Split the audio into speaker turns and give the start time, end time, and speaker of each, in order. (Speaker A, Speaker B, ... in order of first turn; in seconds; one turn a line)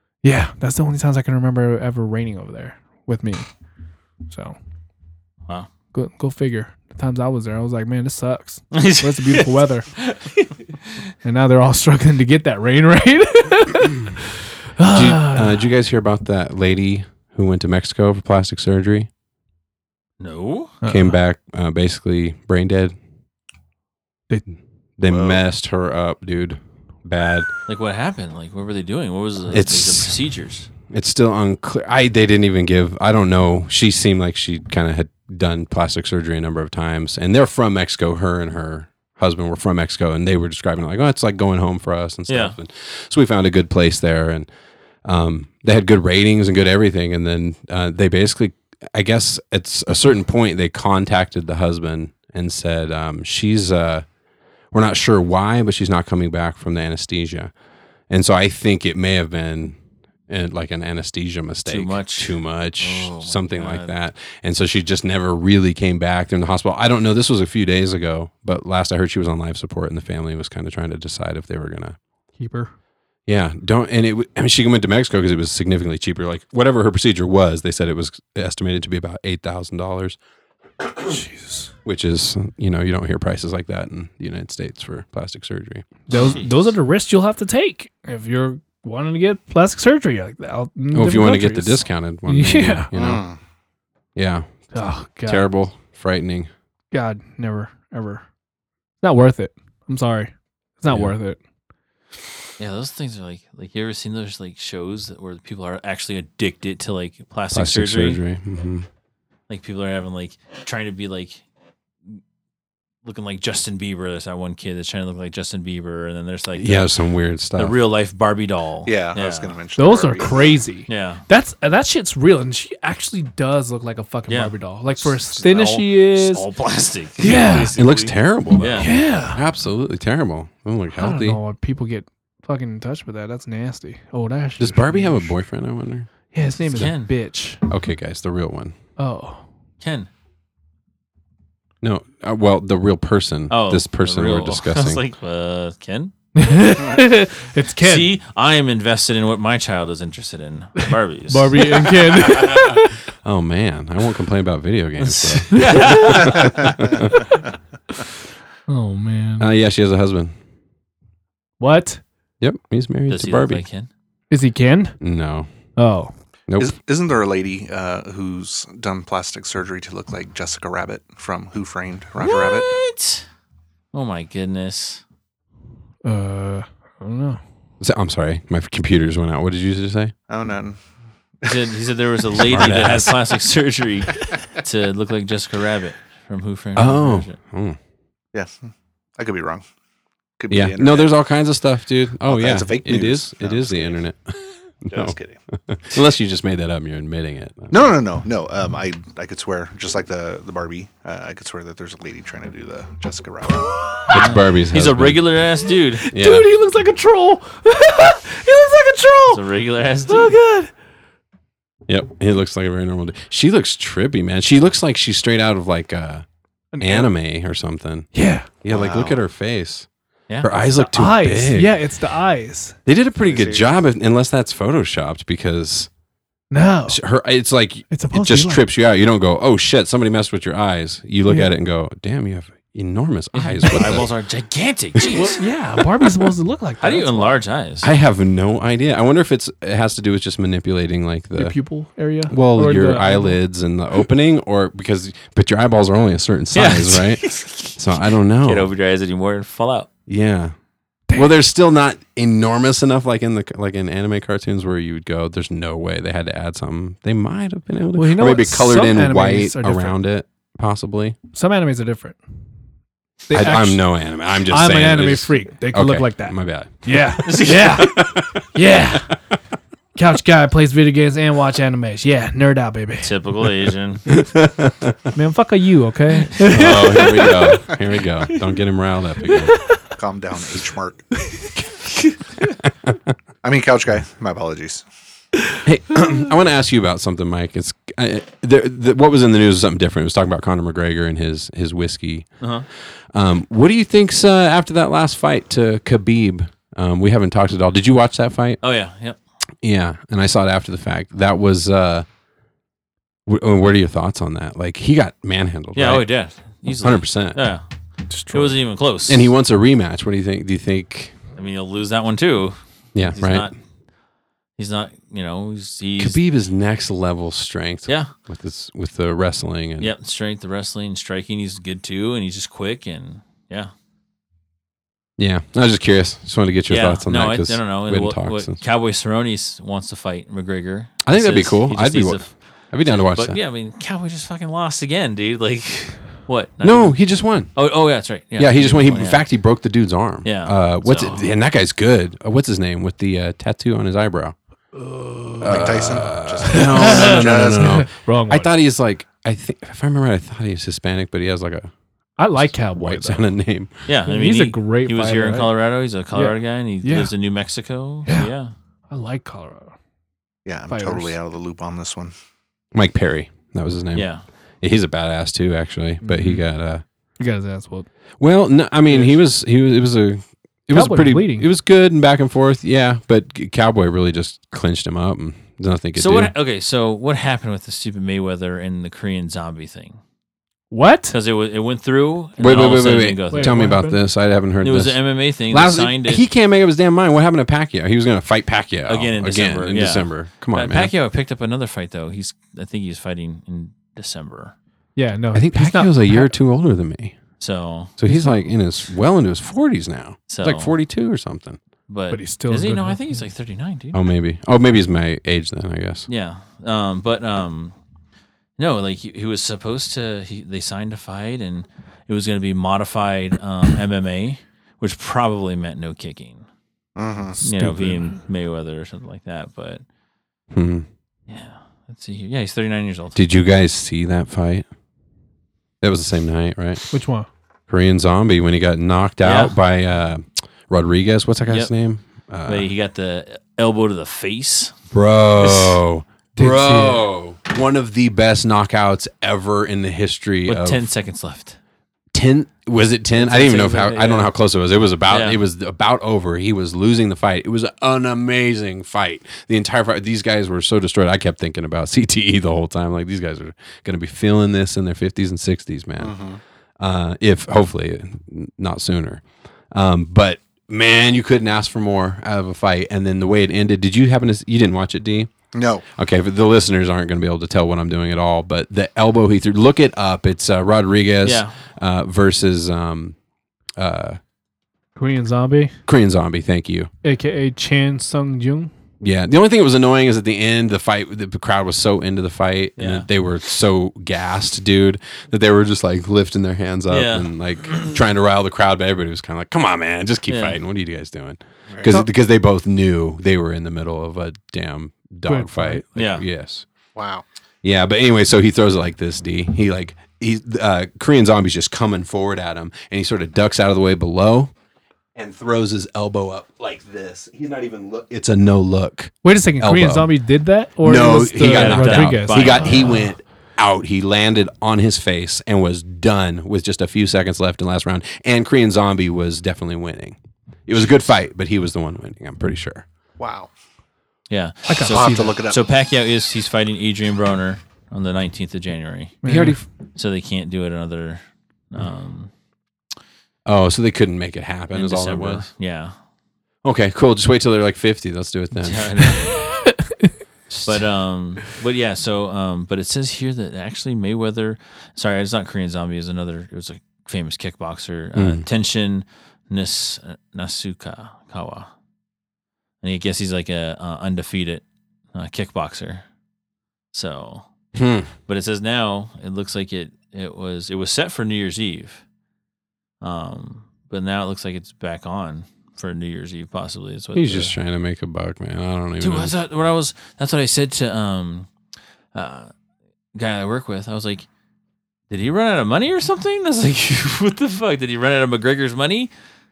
Speaker A: 0.2-3.5
Speaker A: 4.3-4.5
Speaker A: 5.9-9.9
Speaker B: 8.7-10.5
Speaker A: 11.2-15.6
Speaker C: 14.9-19.1
Speaker B: 20.2-20.8
Speaker A: 20.8-21.1
Speaker C: 20.8-22.9
Speaker C: 25.0-27.5
Speaker D: 25.1-25.4
Speaker B: 27.7-30.7
Speaker C: 29.5-30.1
Speaker C: 30.9-44.5
Speaker B: 42.3-42.6
Speaker C: 45.0-54.0
Speaker C: 54.7-57.5
Speaker C: 58.1-59.8
Speaker C: 60.3-72.0
Speaker B: 61.6-63.9
Speaker A: 72.4-72.7
Speaker C: 73.3-80.2
Speaker A: 81.0-81.7
Speaker C: 81.8-85.9
Speaker A: 86.1-92.9
Speaker B: 86.1-86.4
Speaker C: 90.9-93.2
Speaker D: 92.9-93.4
Speaker C: 94.2-94.5
Speaker A: 94.7-95.5
Speaker C: 95.2-96.5
Speaker A: 96.9-98.2
Speaker A: 99.0-101.4
Speaker C: 100.9-101.1
Speaker B: 102.6-108.2
Speaker C: 107.5-108.9
Speaker B: 109.5-111.4
Speaker B: 113.0-116.9
Speaker C: 116.5-117.8
Speaker B: 117.5-119.6
Speaker D: 118.8-120.6
Speaker A: 119.8-126.5
Speaker B: 120.9-121.2
Speaker B: 124.3-124.5
Speaker B: 125.4-128.9
Speaker A: 127.2-127.7
Speaker C: 127.2-131.4
Speaker A: 128.8-129.4
Speaker A: 130.9-135.3
Speaker C: 134.6-136.1
Speaker A: 136.3-137.6
Speaker B: 136.7-137.1
Speaker C: 137.7-138.8
Speaker A: 139.0-139.4
Speaker B: 139.8-140.1
Speaker C: 141.8-145.0
Speaker B: 143.5-146.1
Speaker A: 146.3-148.1
Speaker B: 147.8-152.3
Speaker A: 151.3-152.9
Speaker C: 153.2-157.1
Speaker B: 155.0-156.7
Speaker A: 155.5-156.5
Speaker A: 158.7-159.5
Speaker C: 159.4-160.3
Speaker A: 161.6-162.0
Speaker C: 162.4-163.6
Speaker B: 163.1-163.9
Speaker A: 164.3-165.0
Speaker C: 165.0-165.5
Speaker A: 165.8-166.1
Speaker C: 166.5-166.7
Speaker D: 166.6-172.8
Speaker B: 172.2-173.2
Speaker B: 173.9-175.0
Speaker A: 176.0-177.4
Speaker C: 177.8-180.1
Speaker D: 180.3-180.8
Speaker B: 181.4-187.3
Speaker C: 182.4-183.2
Speaker C: 186.7-187.8
Speaker D: 188.3-189.6
Speaker D: 190.4-191.1
Speaker C: 190.5-197.9
Speaker D: 192.2-194.0
Speaker D: 194.9-195.4
Speaker D: 197.7-203.8
Speaker C: 204.1-205.2
Speaker B: 204.1-206.1
Speaker A: 206.0-209.4
Speaker C: 206.1-206.5
Speaker B: 209.3-210.3
Speaker A: 210.1-210.7
Speaker C: 211.9-216.2
Speaker A: 216.7-217.1
Speaker C: 216.8-219.9
Speaker A: 218.1-218.5
Speaker D: 218.7-219.2
Speaker C: 220.4-221.7
Speaker A: 220.7-222.8
Speaker C: 222.8-225.9
Speaker D: 223.2-223.7
Speaker A: 226.5-227.0
Speaker C: 226.9-234.1
Speaker A: 227.9-228.6
Speaker A: 231.2-231.5
Speaker B: 233.3-235.4
Speaker C: 234.9-235.3
Speaker A: 235.1-237.4
Speaker B: 236.8-237.9
Speaker C: 237.8-241.6
Speaker A: 241.3-243.4
Speaker C: 242.3-248.7
Speaker B: 246.5-247.8
Speaker B: 248.4-249.9
Speaker C: 250.1-250.5
Speaker C: 251.1-261.2
Speaker A: 257.9-260.0
Speaker A: 261.3-262.2
Speaker A: 263.3-263.8
Speaker C: 263.3-268.5
Speaker A: 264.4-269.1
Speaker B: 267.2-267.9
Speaker A: 269.9-273.1
Speaker B: 273.0-274.0
Speaker C: 274.1-275.0
Speaker A: 275.1-277.5
Speaker C: 276.4-279.6
Speaker B: 276.8-277.1
Speaker D: 279.9-281.1
Speaker D: 283.4-284.8
Speaker C: 285.6-292.3
Speaker B: 292.4-292.6
Speaker C: 293.1-298.6
Speaker B: 298.6-299.2
Speaker C: 299.6-302.1
Speaker C: 303.2-306.1
Speaker B: 305.7-307.6
Speaker C: 306.8-307.4
Speaker A: 308.1-308.4
Speaker B: 308.3-309.3
Speaker C: 309.1-311.1
Speaker B: 311.4-313.6
Speaker C: 312.9-313.5
Speaker B: 314.6-316.2
Speaker C: 316.0-319.9
Speaker B: 317.9-318.1
Speaker B: 319.8-323.7
Speaker C: 325.2-328.6
Speaker B: 326.7-339.2
Speaker C: 331.0-333.4
Speaker C: 336.6-337.5
Speaker C: 338.4-344.3
Speaker B: 340.2-341.2
Speaker A: 344.7-345.8
Speaker C: 345.4-351.7
Speaker D: 345.4-347.7
Speaker A: 346.4-348.5
Speaker A: 352.2-353.3
Speaker C: 352.4-353.7
Speaker B: 353.9-358.5
Speaker A: 354.1-355.5
Speaker A: 356.1-357.1
Speaker A: 358.1-358.3
Speaker A: 358.9-359.7
Speaker D: 360.4-362.1
Speaker A: 360.7-361.2
Speaker C: 362.7-364.1
Speaker B: 363.9-364.2
Speaker C: 364.6-366.8
Speaker A: 366.1-366.3
Speaker A: 367.2-367.9
Speaker C: 368.2-376.3
Speaker A: 370.7-371.5
Speaker B: 375.9-380.0
Speaker A: 380.7-381.1
Speaker B: 381.1-383.8
Speaker C: 382.4-385.0
Speaker A: 383.3-384.0
Speaker B: 384.6-386.2
Speaker C: 385.5-390.9
Speaker B: 388.9-394.5
Speaker A: 394.9-396.3
Speaker C: 395.3-397.2
Speaker B: 397.4-398.4
Speaker C: 398.0-401.6
Speaker B: 400.3-400.7
Speaker B: 401.9-404.0
Speaker A: 402.1-403.2
Speaker C: 403.9-406.1
Speaker B: 406.1-407.7
Speaker B: 408.6-416.4
Speaker D: 416.9-417.4
Speaker A: 417.4-418.0
Speaker B: 417.4-419.8
Speaker C: 420.5-420.9
Speaker B: 421.3-423.2
Speaker C: 423.1-424.6
Speaker C: 425.8-426.8
Speaker A: 426.9-427.3
Speaker C: 427.7-432.7
Speaker B: 429.2-429.5
Speaker B: 431.4-431.7
Speaker B: 432.4-434.7
Speaker C: 434.9-440.8
Speaker B: 435.4-435.8
Speaker A: 436.4-437.0
Speaker B: 440.5-441.6
Speaker C: 442.1-456.1
Speaker B: 443.1-444.3
Speaker B: 445.1-445.4
Speaker D: 456.0-456.4
Speaker C: 456.8-465.3
Speaker D: 465.5-465.8
Speaker C: 465.9-473.1
Speaker B: 471.2-471.5
Speaker C: 473.8-474.2
Speaker A: 474.9-475.7
Speaker C: 475.9-476.9
Speaker A: 477.0-478.7
Speaker C: 479.0-496.6
Speaker B: 482.8-483.1
Speaker B: 486.9-487.9
Speaker B: 490.3-490.6
Speaker A: 495.2-495.8
Speaker B: 495.9-496.2
Speaker D: 496.9-497.2
Speaker C: 497.6-504.5
Speaker C: 505.1-510.1
Speaker A: 509.2-513.0
Speaker C: 510.8-522.8
Speaker B: 511.4-513.1
Speaker D: 523.2-523.5
Speaker B: 524.3-529.2
Speaker A: 524.7-525.4
Speaker D: 524.9-525.6
Speaker A: 529.2-529.6
Speaker C: 529.2-529.6
Speaker B: 530.0-532.3
Speaker C: 533.5-535.5
Speaker B: 534.7-535.9
Speaker C: 536.6-539.0
Speaker B: 538.5-539.4
Speaker A: 539.2-540.1
Speaker B: 540.5-551.7
Speaker C: 548.1-548.4
Speaker B: 552.8-554.6
Speaker B: 555.1-556.0
Speaker B: 556.9-557.5
Speaker C: 557.7-558.1
Speaker B: 558.3-562.0
Speaker B: 563.0-567.5
Speaker C: 567.1-569.3
Speaker B: 569.0-571.5
Speaker B: 572.1-572.5
Speaker B: 573.1-574.3
Speaker B: 575.1-579.1